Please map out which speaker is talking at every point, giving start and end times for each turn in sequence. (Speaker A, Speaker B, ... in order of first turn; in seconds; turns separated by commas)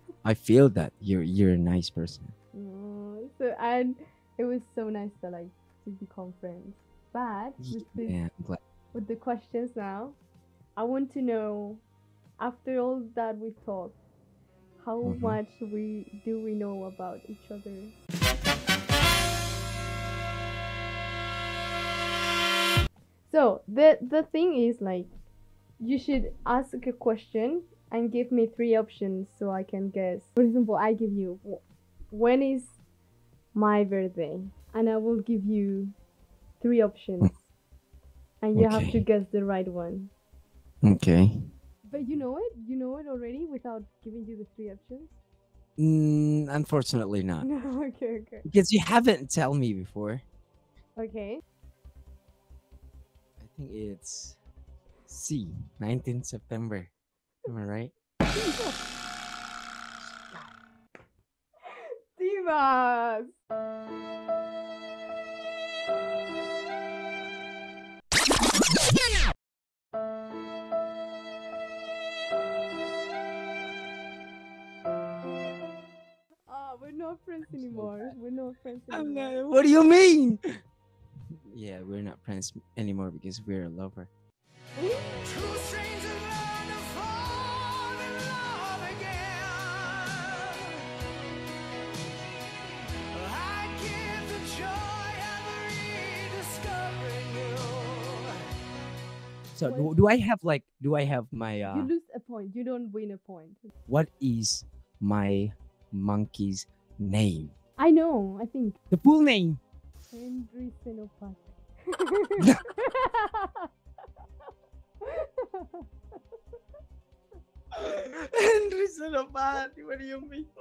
Speaker A: 0.2-2.3, Speaker B: 2.5-8.2, Speaker A: 7.6-8.6, Speaker B: 8.9-10.2, Speaker B: 10.8-11.8, Speaker B: 12.4-13.9, Speaker B: 14.8-18.0, Speaker A: 15.0-15.4, Speaker B: 23.3-25.1, Speaker B: 25.8-32.8, Speaker B: 33.5-35.9, Speaker B: 36.6-37.4, Speaker B: 38.4-40.1, Speaker A: 38.5-39.0, Speaker A: 40.8-41.4, Speaker B: 41.8-45.2, Speaker A: 45.8-47.5, Speaker B: 47.4-48.5, Speaker A: 48.4-50.2, Speaker B: 51.0-51.4, Speaker A: 53.4-54.4, Speaker A: 55.1-56.9, Speaker A: 57.5-57.9, Speaker B: 58.3-58.8, Speaker B: 61.7-63.3, Speaker B: 76.5-79.4, Speaker A: 77.5-78.1, Speaker A: 78.9-80.4, Speaker A: 81.5-84.1, Speaker B: 84.8-85.3, Speaker C: 85.2-90.8, Speaker C: 93.1-98.3, Speaker A: 99.5-101.9, Speaker B: 99.7-100.0, Speaker B: 101.7-103.7, Speaker A: 103.9-107.5, Speaker B: 107.8-108.8, Speaker A: 108.9-109.6, Speaker B: 110.1-113.7, Speaker B: 115.0-115.9, Speaker A: 117.7-120.5